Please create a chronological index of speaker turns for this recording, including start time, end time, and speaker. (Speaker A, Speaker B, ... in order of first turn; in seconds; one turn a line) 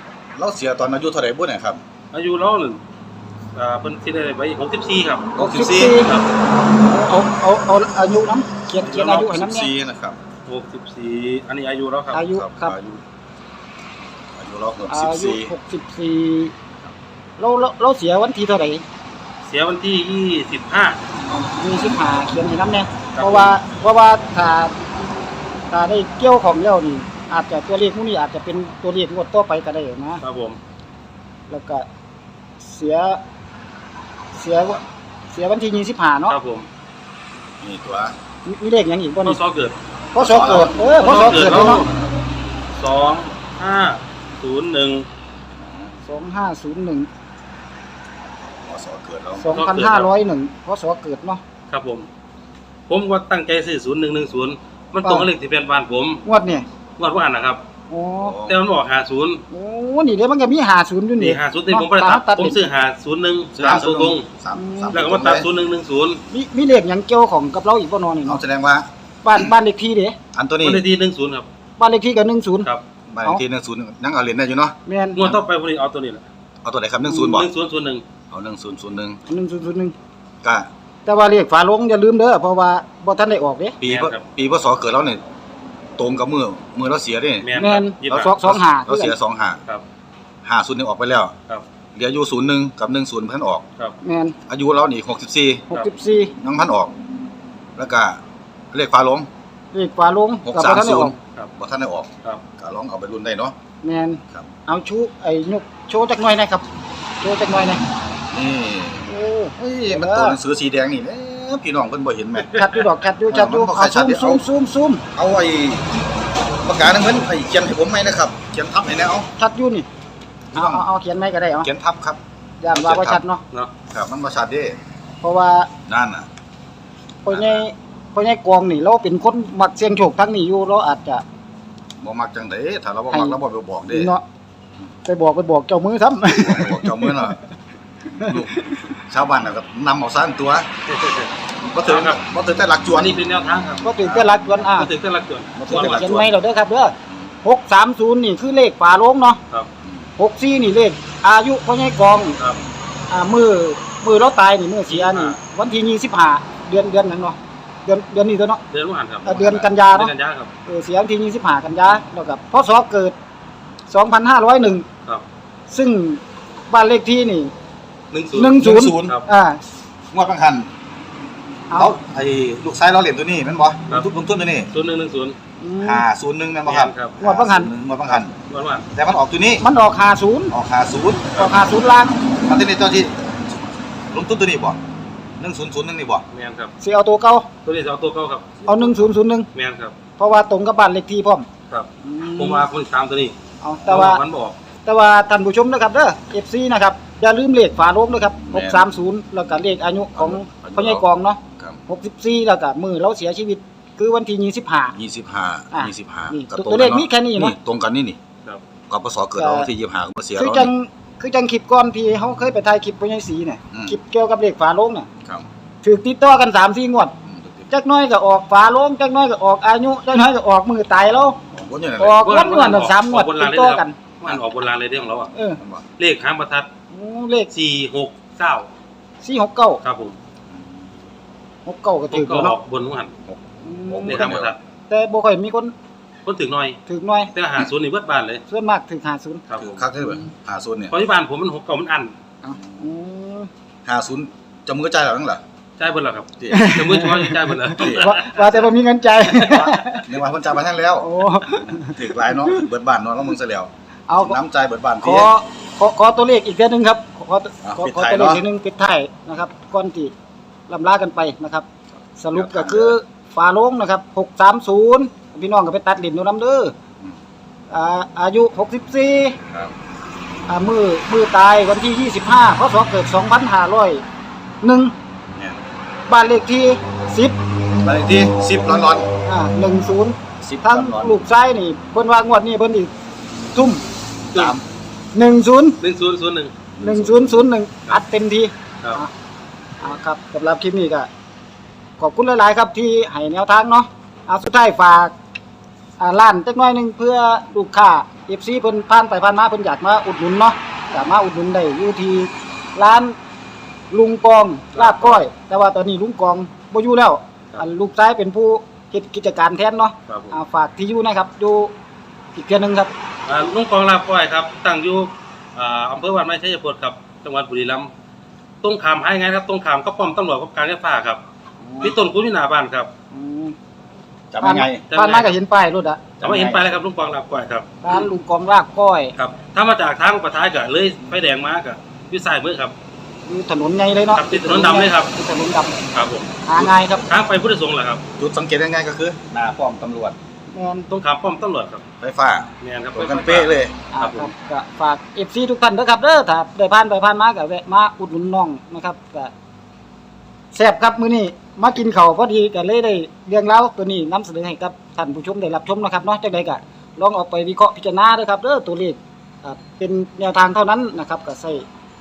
Speaker A: 0.3-1.8
Speaker B: 2.1-2.8
Speaker B: 3.5-5.3
Speaker A: 5.3-6.0
Speaker C: 5.4-6.1
Speaker B: 6.0-6.3
Speaker C: 6.8-9.7
Speaker B: 8.8-9.2
Speaker A: 8.9-10.2
Speaker B: 10.5-12.2
Speaker C: 12.1-12.8
Speaker A: 12.3-13.0
Speaker A: 14.3-15.5
Speaker C: 14.9-16.5
Speaker C: 17.4-18.8
Speaker B: 19.4-21.0
Speaker C: 21.3-24.7
Speaker B: 23.1-23.6
Speaker C: 25.7-30.2
Speaker B: 30.2-30.6
Speaker C: 31.5-31.8
Speaker C: 32.6-33.2
Speaker C: 34.3-36.4
Speaker B: 36.3-36.7
Speaker A: 37.6-38.1
Speaker C: 38.4-39.4
Speaker B: 39.2-39.8
Speaker C: 40.1-41.9
Speaker A: 40.1-42.0
Speaker B: 40.4-41.9
Speaker B: 42.7-45.1
Speaker A: 45.6-45.9
Speaker C: 46.1-47.1
Speaker A: 48.6-49.5
Speaker C: 49.4-51.4
Speaker B: 49.5-50.1
Speaker B: 51.7-52.1
Speaker B: 52.9-56.2
Speaker C: 55.0-55.3
Speaker C: 56.2-56.6
Speaker B: 57.0-57.6
Speaker C: 57.9-58.4
Speaker A: 58.2-58.6
Speaker B: 58.5-59.4
Speaker C: 59.5-62.6
Speaker B: 61.2-64.2
Speaker A: 63.5-65.5
Speaker C: 64.5-65.1
Speaker B: 64.9-66.2
Speaker C: 66.3-68.4
Speaker A: 68.2-68.9
Speaker C: 69.2-70.2
Speaker A: 70.3-70.8
Speaker B: 70.6-71.5
Speaker C: 71.8-72.7
Speaker A: 73.1-75.3
Speaker C: 74.9-75.4
Speaker B: 75.1-76.2
Speaker A: 76.6-77.5
Speaker C: 77.0-77.4
Speaker B: 77.2-78.0
Speaker A: 78.3-79.2
Speaker C: 79.3-79.9
Speaker A: 80.4-80.7
Speaker C: 81.1-83.8
Speaker A: 83.8-85.2
Speaker B: 83.8-84.2
Speaker A: 86.0-87.5
Speaker B: 87.4-88.4
Speaker C: 87.6-89.2
Speaker A: 88.0-89.6
Speaker A: 90.4-91.3
Speaker A: 91.9-93.6
Speaker C: 94.0-94.4
Speaker A: 94.5-95.7
Speaker C: 95.7-96.3
Speaker A: 96.4-96.9
Speaker A: 97.8-99.3
Speaker C: 99.7-101.2
Speaker A: 100.4-103.5
Speaker C: 103.8-106.6
Speaker C: 107.2-107.8
Speaker A: 108.3-112.6
Speaker C: 109.1-110.4
Speaker C: 112.5-115.0
Speaker B: 112.5-112.8
Speaker A: 113.3-114.4
Speaker A: 115.1-115.9
Speaker A: 116.6-119.3
Speaker C: 119.4-119.9
Speaker A: 120.5-120.9
Speaker C: 120.5-121.7
Speaker A: 121.6-122.2
Speaker C: 122.6-123.4
Speaker A: 122.7-123.2
Speaker A: 123.9-124.8
Speaker C: 125.2-125.7
Speaker A: 125.9-126.3
Speaker C: 127.2-131.2
Speaker A: 127.3-127.6
Speaker A: 132.0-134.1
Speaker C: 133.1-133.4
Speaker C: 133.9-134.2
Speaker C: 135.1-137.2
Speaker A: 136.3-137.4
Speaker C: 138.2-138.8
Speaker A: 138.2-140.7
Speaker B: 140.9-141.3
Speaker A: 141.7-143.2
Speaker B: 141.8-142.2
Speaker B: 142.9-146.1
Speaker C: 143.8-144.9
Speaker A: 144.1-144.4
Speaker A: 145.6-146.3
Speaker C: 145.7-149.4
Speaker A: 147.1-147.4
Speaker C: 150.2-152.4
Speaker C: 153.1-158.6
Speaker B: 154.9-155.4
Speaker B: 158.7-160.5
Speaker C: 159.2-160.1
Speaker A: 159.3-159.7
Speaker C: 160.7-163.1
Speaker C: 163.9-164.9
Speaker C: 165.7-167.5
Speaker B: 168.1-169.2
Speaker C: 168.3-169.6
Speaker A: 168.5-169.2
Speaker A: 170.1-170.7
Speaker C: 171.7-172.0
Speaker A: 171.8-174.7
Speaker B: 174.7-175.4
Speaker C: 175.6-176.1
Speaker A: 175.8-178.3
Speaker B: 176.7-177.2
Speaker C: 177.2-177.7
Speaker B: 178.1-178.9
Speaker A: 178.9-179.6
Speaker C: 179.6-180.5
Speaker A: 180.5-181.4
Speaker C: 181.3-182.2
Speaker A: 182.3-183.2
Speaker A: 184.1-184.8
Speaker A: 185.4-186.2
Speaker B: 186.3-186.7
Speaker C: 186.8-187.5
Speaker B: 187.6-188.6
Speaker C: 188.7-189.5
Speaker A: 188.7-189.1
Speaker B: 189.5-189.9
Speaker C: 190.2-191.4
Speaker B: 191.7-194.6
Speaker C: 192.0-192.7
Speaker C: 193.6-194.2
Speaker C: 194.9-204.9
Speaker A: 198.5-198.9
Speaker A: 200.2-201.1
Speaker A: 204.9-208.2
Speaker C: 205.7-207.6
Speaker A: 208.9-210.7
Speaker C: 209.4-209.7
Speaker C: 210.4-215.1
Speaker A: 213.7-214.0
Speaker C: 215.8-217.1
Speaker A: 217.2-217.7
Speaker C: 217.7-221.4
Speaker A: 221.5-222.3
Speaker C: 222.0-223.9
Speaker B: 222.2-225.3
Speaker C: 225.3-225.6
Speaker A: 225.6-225.8
Speaker B: 226.0-226.7
Speaker C: 226.9-227.5
Speaker B: 227.5-228.7
Speaker C: 229.2-229.8
Speaker B: 229.8-230.2
Speaker A: 230.5-230.8
Speaker C: 231.7-232.6
Speaker B: 232.1-233.1
Speaker A: 233.3-234.6
Speaker C: 233.6-235.7
Speaker B: 234.1-234.6
Speaker B: 236.2-236.8
Speaker C: 236.9-237.3
Speaker B: 237.3-238.4
Speaker C: 238.5-239.4
Speaker B: 239.5-239.8
Speaker A: 239.6-240.9
Speaker B: 240.9-242.1
Speaker C: 242.4-243.5
Speaker A: 243.8-245.4
Speaker B: 245.8-248.6
Speaker A: 246.4-246.7
Speaker C: 246.5-250.1
Speaker A: 247.8-248.2
Speaker B: 249.2-249.8
Speaker A: 250.1-255.3
Speaker C: 251.0-252.7
Speaker C: 254.1-254.4
Speaker C: 255.0-260.1
Speaker A: 257.6-258.4
Speaker C: 260.7-261.6
Speaker C: 262.2-266.7
Speaker A: 262.3-263.0
Speaker C: 267.7-269.4
Speaker C: 270.5-274.0
Speaker C: 274.6-274.9
Speaker A: 275.3-275.6
Speaker C: 276.1-277.3
Speaker A: 277.8-279.1
Speaker C: 279.2-282.9
Speaker A: 280.4-281.2
Speaker C: 283.5-283.8
Speaker A: 284.3-284.6
Speaker C: 285.1-285.8
Speaker B: 285.8-286.5
Speaker A: 286.8-287.5
Speaker C: 286.8-289.1
Speaker C: 289.8-291.1
Speaker C: 292.0-295.1
Speaker C: 296.0-303.1
Speaker C: 303.9-311.7
Speaker B: 304.7-305.2
Speaker B: 310.1-310.4
Speaker C: 312.4-312.9
Speaker B: 313.2-317.9
Speaker B: 318.6-321.2
Speaker C: 321.6-322.0
Speaker B: 321.8-322.9
Speaker C: 323.1-323.6
Speaker A: 324.3-324.9
Speaker C: 324.4-326.1
Speaker B: 324.9-325.4
Speaker A: 326.2-326.8
Speaker B: 326.2-327.9
Speaker C: 327.8-329.1
Speaker B: 329.1-332.8
Speaker C: 333.2-335.8
Speaker B: 334.1-335.1
Speaker B: 335.9-336.3
Speaker C: 336.4-337.1
Speaker B: 337.1-338.0
Speaker A: 338.2-340.1
Speaker C: 340.5-340.9
Speaker B: 340.9-341.8
Speaker A: 342.0-343.8
Speaker B: 342.6-344.3
Speaker C: 343.9-349.3
Speaker C: 350.5-361.6